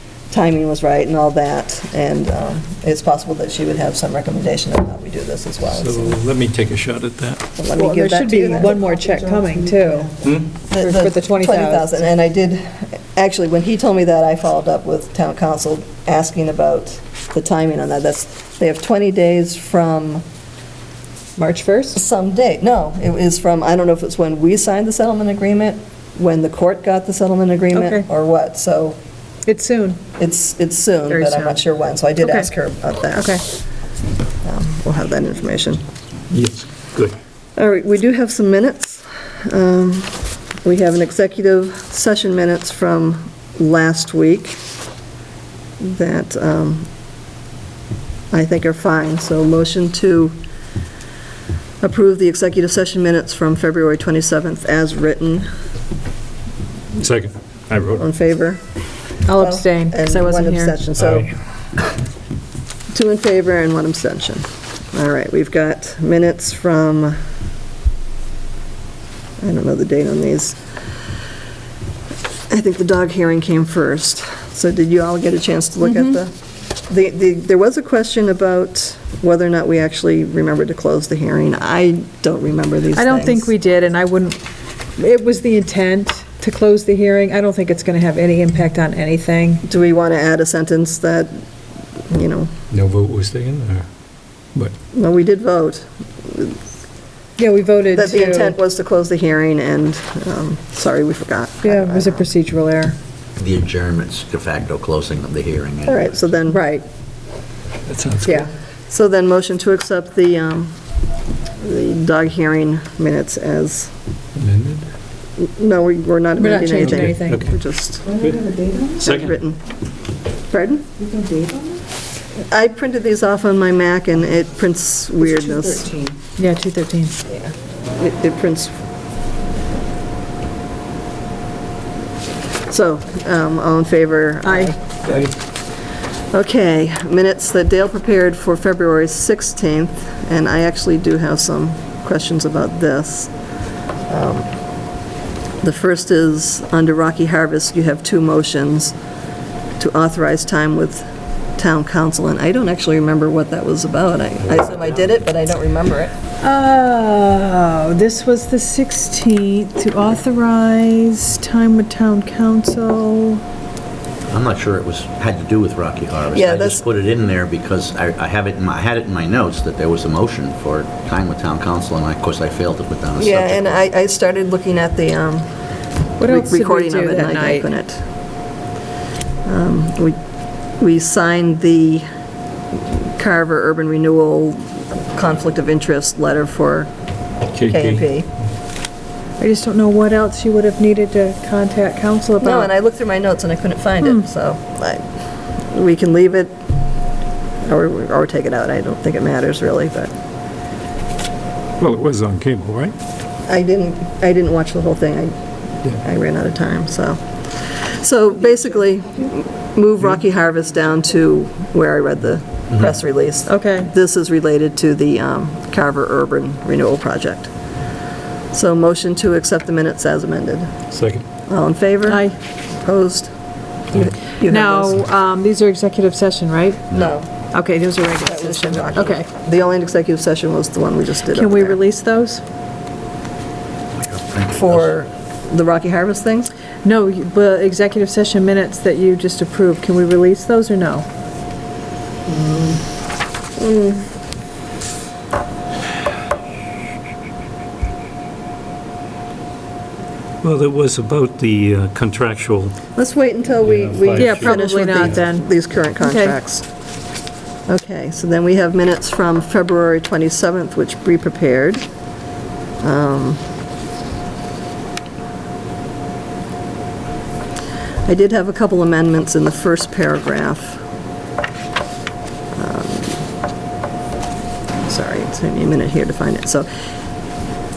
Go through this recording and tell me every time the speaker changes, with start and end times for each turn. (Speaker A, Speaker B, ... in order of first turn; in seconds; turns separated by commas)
Speaker A: 0.3-6.2, Speaker B: 5.7-7.4, Speaker A: 7.5-8.8, Speaker C: 7.7-10.1, Speaker B: 10.2-10.5, Speaker A: 10.5-20.2, Speaker C: 10.7-11.9, Speaker C: 21.4-21.9, Speaker A: 21.9-29.0, Speaker C: 27.7-28.0, Speaker C: 29.4-30.0, Speaker A: 30.2-33.4, Speaker C: 31.1-31.6, Speaker C: 32.2-32.5, Speaker C: 33.1-33.4, Speaker A: 34.4-35.8, Speaker B: 36.3-37.2, Speaker A: 37.6-44.6, Speaker A: 45.8-46.9, Speaker A: 48.3-50.4, Speaker A: 51.8-55.5, Speaker B: 57.0-58.0, Speaker A: 58.0-58.6, Speaker C: 59.2-60.8, Speaker A: 59.4-61.3, Speaker B: 61.0-61.2, Speaker A: 62.9-67.2, Speaker A: 69.4-70.6, Speaker A: 72.5-76.3, Speaker C: 75.8-76.2, Speaker A: 76.9-83.5, Speaker C: 82.9-84.4, Speaker C: 85.0-89.6, Speaker A: 89.6-91.4, Speaker A: 92.1-92.5, Speaker B: 92.7-93.9, Speaker A: 94.9-96.6, Speaker C: 97.4-98.5, Speaker A: 97.9-102.2, Speaker C: 101.6-102.9, Speaker D: 103.4-106.2, Speaker A: 105.9-106.8, Speaker B: 107.8-108.4, Speaker A: 108.2-110.8, Speaker A: 111.6-113.9, Speaker B: 114.3-114.8, Speaker A: 115.4-118.1, Speaker C: 116.4-117.4, Speaker B: 116.8-117.5, Speaker B: 118.2-118.5, Speaker C: 118.2-118.9, Speaker A: 119.0-119.6, Speaker B: 119.0-119.3, Speaker A: 120.5-120.8, Speaker C: 121.0-121.8, Speaker A: 122.4-126.0, Speaker C: 125.3-127.2, Speaker A: 127.3-128.7, Speaker A: 132.7-134.8, Speaker C: 134.4-134.7, Speaker A: 136.3-143.3, Speaker A: 144.1-144.5, Speaker A: 145.6-148.9, Speaker A: 149.8-156.1, Speaker C: 156.4-163.4, Speaker D: 164.3-173.8, Speaker A: 166.3-166.8, Speaker A: 173.2-175.5, Speaker C: 176.2-177.7, Speaker A: 176.2-178.1, Speaker A: 179.4-180.2, Speaker A: 180.8-182.1, Speaker A: 182.7-186.9, Speaker B: 187.5-188.0, Speaker A: 187.7-188.3, Speaker C: 189.4-192.7, Speaker A: 192.4-195.0, Speaker A: 195.6-196.5, Speaker A: 197.6-200.1, Speaker B: 201.8-202.9, Speaker A: 203.5-205.3, Speaker A: 205.9-217.5, Speaker C: 213.4-213.9, Speaker A: 218.5-220.7, Speaker B: 220.9-221.2, Speaker A: 221.5-223.3, Speaker C: 222.1-222.3, Speaker A: 223.9-225.0, Speaker C: 224.3-229.2, Speaker A: 226.9-227.3, Speaker A: 228.2-231.8, Speaker C: 231.3-232.4, Speaker D: 233.9-234.9, Speaker A: 234.5-236.5, Speaker C: 236.8-241.1, Speaker A: 242.2-242.8, Speaker A: 243.6-244.1, Speaker B: 250.4-252.8, Speaker A: 252.9-256.6, Speaker B: 253.6-255.2, Speaker C: 254.2-256.4, Speaker A: 257.7-261.8, Speaker A: 262.8-263.4, Speaker A: 268.1-270.8, Speaker A: 272.5-273.2, Speaker A: 274.9-276.7